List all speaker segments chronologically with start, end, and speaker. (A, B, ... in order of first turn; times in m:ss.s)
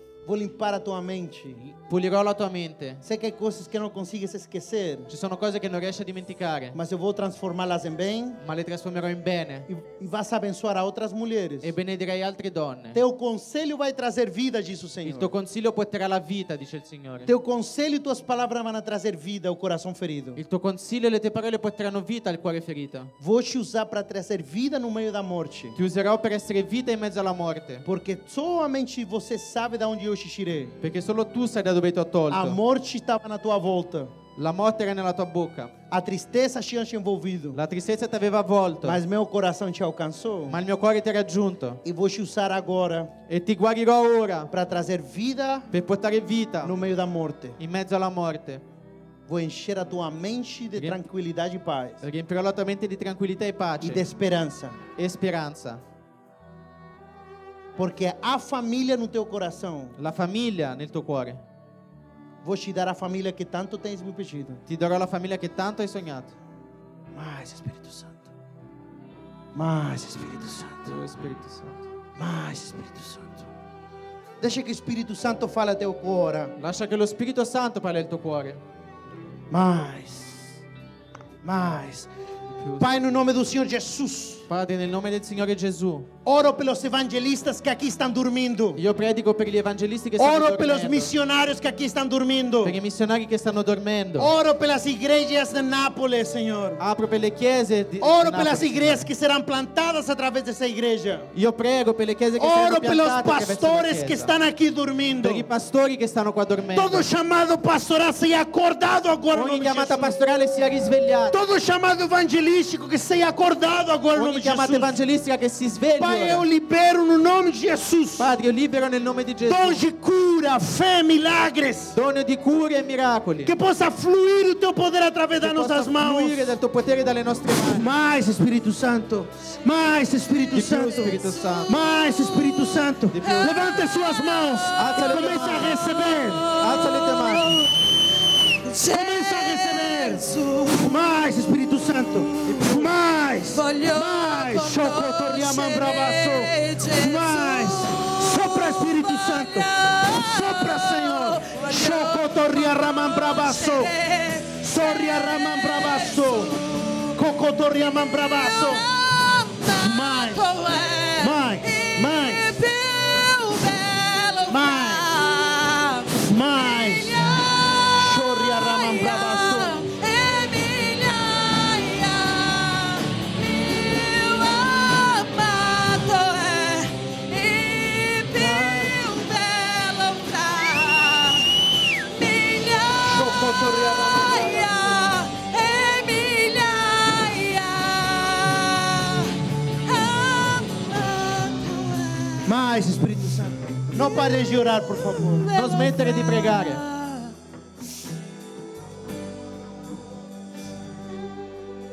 0:00.2-0:01.7 A
0:01.7-0:03.0 B
0:03.0-0:05.1 A
0:05.1-0:06.8 B
0:06.7-0:08.4 A
0:08.4-0:09.7 B
0:09.7-0:11.7 A
0:11.6-0:13.0 B
0:12.9-0:15.3 A
0:15.0-0:17.3 B
0:17.3-0:20.4 A
0:20.4-0:23.1 B
0:23.2-0:25.8 A
0:25.8-0:27.8 B
0:27.8-0:30.8 A
0:30.8-0:32.6 B
0:32.3-0:34.1 A
0:34.4-0:35.7 B
0:35.9-0:37.6 A
0:37.5-0:39.0 B
0:38.8-0:40.6 A
0:40.5-0:41.8 B
0:41.8-0:43.1 A
0:43.3-0:44.5 B
0:44.5-0:45.7 A
0:45.7-0:46.8 B
0:46.6-0:47.6 A
0:47.6-0:48.6 B
0:49.3-0:52.0 A
0:50.8-0:51.0 B
0:52.0-0:54.0 B
0:53.8-0:54.8 A
0:55.0-0:55.8 B
0:57.8-1:00.0 A
1:00.0-1:01.4 B
1:02.4-1:04.6 A
1:04.7-1:06.3 B
1:07.1-1:08.3 A
1:09.6-1:11.0 A
1:10.9-1:11.9 B
1:12.2-1:13.5 A
1:14.4-1:16.6 A
1:16.6-1:18.6 B
1:19.5-1:20.6 A
1:21.4-1:22.1 A
1:22.6-1:22.9 B
1:22.8-1:24.5 A
1:24.5-1:26.1 B
1:26.2-1:28.8 A
1:28.8-1:31.1 B
1:30.2-1:32.8 A
1:32.6-1:34.3 B
1:34.2-1:36.8 A
1:36.8-1:39.1 B
1:38.0-1:41.3 A
1:41.3-1:44.3 B
1:42.4-1:45.5 A
1:45.2-1:47.0 B
1:46.7-1:50.2 A
1:49.3-1:51.4 B
1:51.3-1:55.0 A
1:54.1-1:56.4 B
1:56.0-1:58.3 A
1:58.2-1:59.8 B
1:59.4-2:02.0 A
2:02.0-2:03.5 B
2:03.4-2:06.5 A
2:05.4-2:07.9 B
2:07.7-2:16.5 A
2:10.5-2:11.8 B
2:13.1-2:13.6 B
2:13.2-2:14.4 C
2:14.8-2:16.0 B
2:15.9-2:17.7 C
2:16.5-2:17.6 B
2:18.6-2:20.9 C
2:18.8-2:33.9 A
2:22.4-2:22.9 B
2:23.5-2:36.6 C
2:34.6-2:36.6 A
2:37.1-2:38.9 A
2:38.4-3:12.5 C
2:39.8-2:40.5 A
2:41.2-2:42.5 A
2:44.5-2:45.2 A
2:46.1-2:47.3 A
2:48.0-2:49.8 A
2:58.3-2:59.0 A
3:03.0-3:05.2 A
3:12.4-3:15.5 A
3:15.4-3:17.3 C
3:15.5-3:16.8 B